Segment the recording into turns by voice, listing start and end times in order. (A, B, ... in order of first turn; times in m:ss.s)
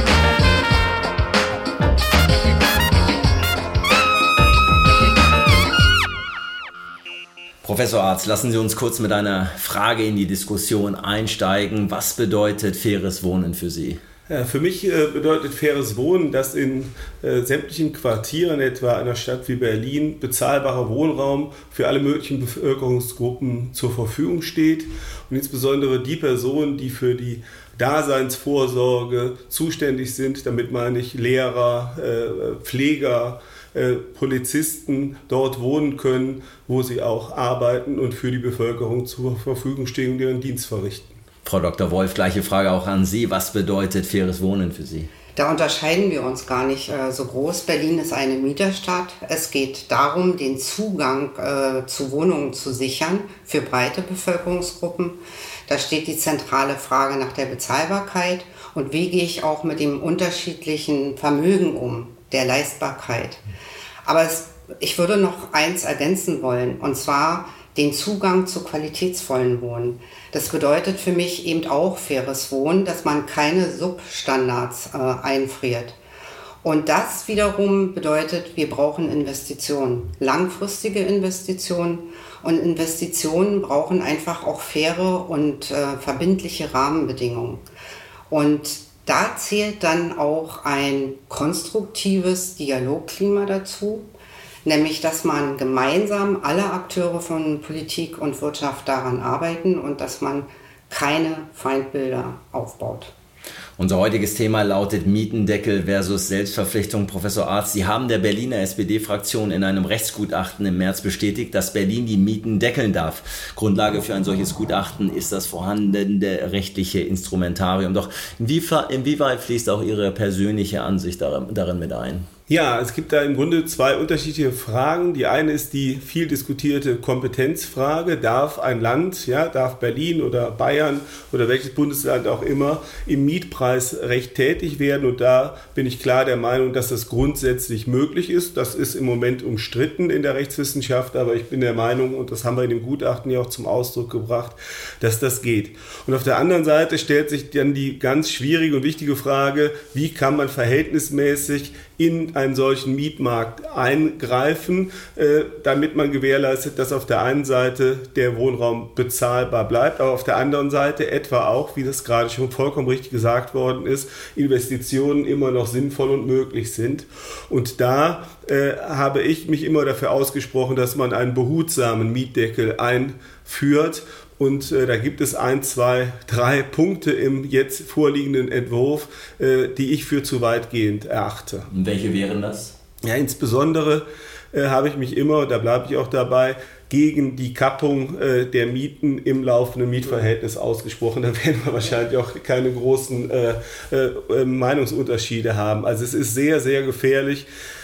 0:07.6-0:14.0 A
0:14.3-0:41.2 B
0:41.4-0:45.1 A
0:45.4-1:03.4 C
1:04.0-1:16.0 C
1:16.6-1:27.6 C
1:28.3-1:34.1 C
1:34.6-1:43.1 C
1:43.8-2:02.3 A
2:02.5-3:01.7 B
3:01.7-3:02.7 A
3:03.0-3:17.5 B